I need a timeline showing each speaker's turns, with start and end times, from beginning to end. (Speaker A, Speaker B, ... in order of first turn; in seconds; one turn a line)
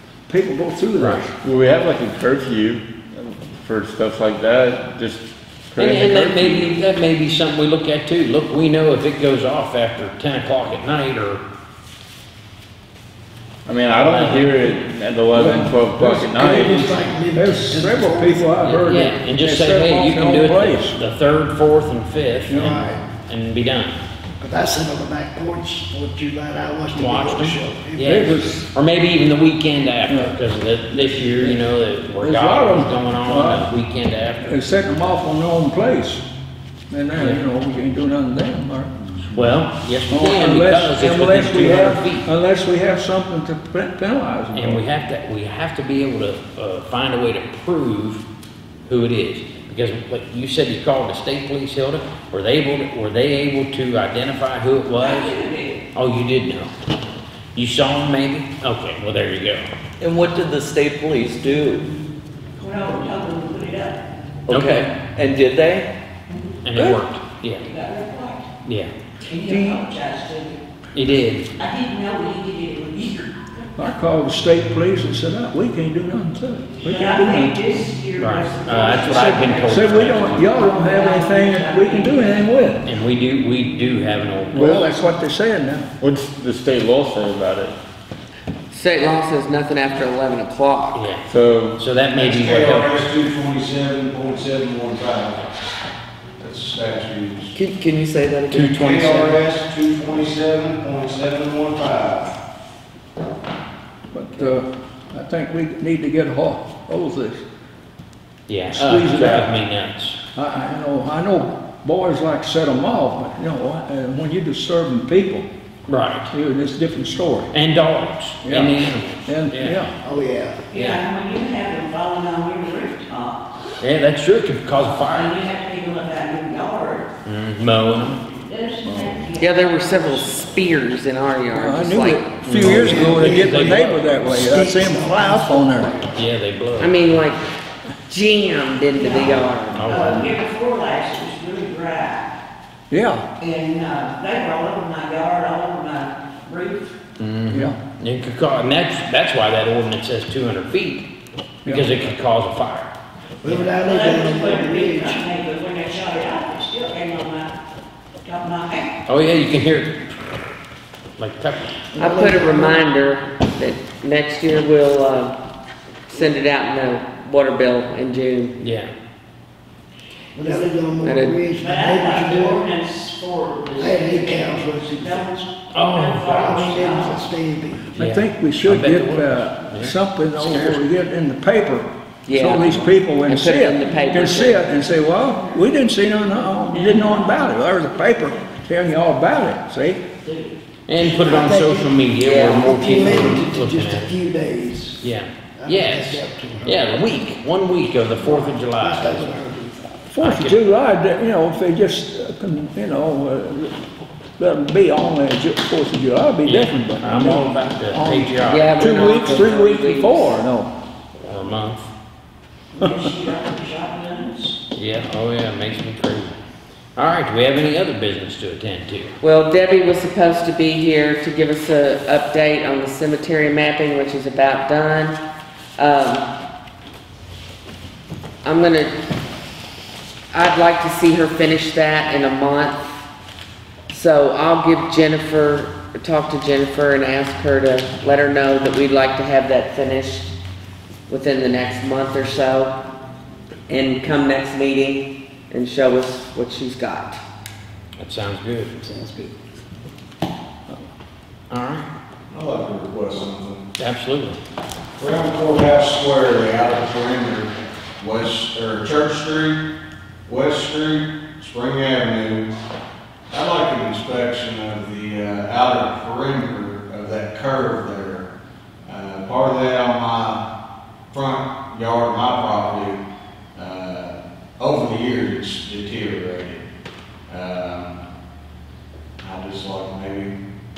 Speaker A: 0.3-1.3
Speaker B: 0.9-1.2
Speaker C: 1.4-6.7
Speaker B: 5.8-11.4
Speaker C: 13.6-17.0
Speaker B: 14.0-14.6
Speaker A: 15.3-20.9
Speaker D: 16.4-19.1
Speaker B: 18.7-24.0
Speaker D: 22.5-23.0
Speaker A: 22.5-22.9
Speaker D: 24.4-28.4
Speaker B: 26.9-34.5
Speaker A: 28.0-28.7
Speaker A: 30.1-30.4
Speaker A: 30.9-31.6
Speaker A: 32.2-33.7
Speaker A: 34.4-36.2
Speaker A: 36.9-38.9
Speaker B: 37.2-37.4
Speaker B: 39.3-42.3
Speaker A: 40.1-44.8
Speaker B: 44.5-48.2
Speaker B: 48.9-55.3
Speaker E: 55.0-55.8
Speaker B: 55.9-56.7
Speaker B: 57.5-59.7
Speaker F: 60.0-61.9
Speaker E: 62.6-64.0
Speaker G: 64.5-65.9
Speaker B: 64.5-64.9
Speaker E: 66.3-66.9
Speaker B: 66.6-67.7
Speaker E: 67.6-68.5
Speaker B: 68.7-68.9
Speaker E: 69.2-70.6
Speaker F: 69.5-69.9
Speaker B: 70.9-71.5
Speaker E: 71.6-73.4
Speaker A: 73.8-77.5
Speaker E: 76.8-82.5
Speaker B: 78.2-80.5
Speaker A: 79.2-82.8
Speaker B: 82.8-84.9
Speaker A: 84.5-85.9
Speaker C: 86.0-87.8
Speaker G: 88.7-91.0
Speaker B: 90.9-93.0
Speaker C: 91.3-91.8
Speaker H: 92.2-95.5
Speaker H: 96.4-97.5
Speaker F: 97.5-98.8
Speaker B: 98.5-99.4
Speaker H: 98.7-102.3
Speaker A: 104.1-107.4
Speaker B: 108.5-110.2
Speaker A: 108.7-109.5
Speaker A: 110.3-115.5
Speaker B: 115.9-116.3
Speaker A: 116.3-117.5
Speaker B: 117.5-119.8
Speaker A: 118.4-120.0
Speaker D: 120.0-120.6
Speaker E: 120.7-123.5
Speaker B: 120.7-121.0
Speaker B: 123.8-125.3
Speaker E: 124.8-127.1
Speaker B: 127.2-128.2
Speaker E: 128.3-130.3
Speaker F: 128.9-129.1
Speaker G: 129.4-132.4
Speaker A: 131.5-135.9
Speaker B: 132.4-134.4
Speaker D: 132.5-136.2
Speaker B: 136.2-137.1
Speaker G: 136.8-137.4
Speaker G: 138.1-140.0
Speaker E: 138.9-142.4
Speaker B: 139.7-140.3
Speaker A: 142.9-143.3
Speaker E: 143.4-146.9
Speaker B: 147.2-151.1
Speaker A: 147.5-147.8
Speaker B: 151.6-152.9
Speaker D: 153.4-155.2
Speaker E: 153.4-157.5
Speaker E: 158.2-158.9
Speaker B: 159.1-160.3
Speaker B: 161.2-161.8
Speaker D: 161.9-162.8
Speaker G: 162.0-165.4
Speaker G: 166.1-168.6
Speaker B: 168.6-168.9
Speaker D: 170.3-172.6
Speaker G: 171.0-171.3
Speaker E: 171.6-177.2
Speaker D: 173.8-175.2
Speaker B: 175.7-177.0
Speaker D: 176.3-177.9
Speaker A: 177.9-190.1
Speaker B: 178.0-180.8
Speaker G: 182.3-184.6
Speaker E: 186.6-187.2
Speaker E: 190.2-190.5
Speaker B: 190.9-194.1
Speaker D: 191.0-197.2
Speaker B: 195.0-199.3
Speaker D: 198.1-199.9
Speaker A: 200.1-203.8
Speaker B: 200.2-200.6
Speaker A: 204.4-210.7
Speaker B: 206.4-209.3
Speaker G: 208.4-210.4
Speaker B: 211.2-211.9
Speaker E: 212.8-214.6
Speaker B: 214.7-216.4
Speaker B: 216.9-219.2
Speaker G: 219.2-225.2
Speaker G: 225.8-226.3
Speaker G: 228.4-229.0
Speaker G: 230.3-232.9
Speaker G: 233.9-240.3
Speaker G: 241.1-242.8
Speaker G: 243.7-247.2
Speaker B: 248.0-248.9
Speaker B: 251.5-251.9
Speaker H: 252.3-253.6
Speaker B: 253.8-254.4
Speaker H: 255.0-259.6
Speaker H: 260.2-262.5
Speaker H: 263.3-268.3
Speaker H: 268.9-270.4
Speaker H: 271.1-273.0
Speaker H: 273.5-276.6
Speaker H: 277.3-277.9
Speaker H: 279.2-280.3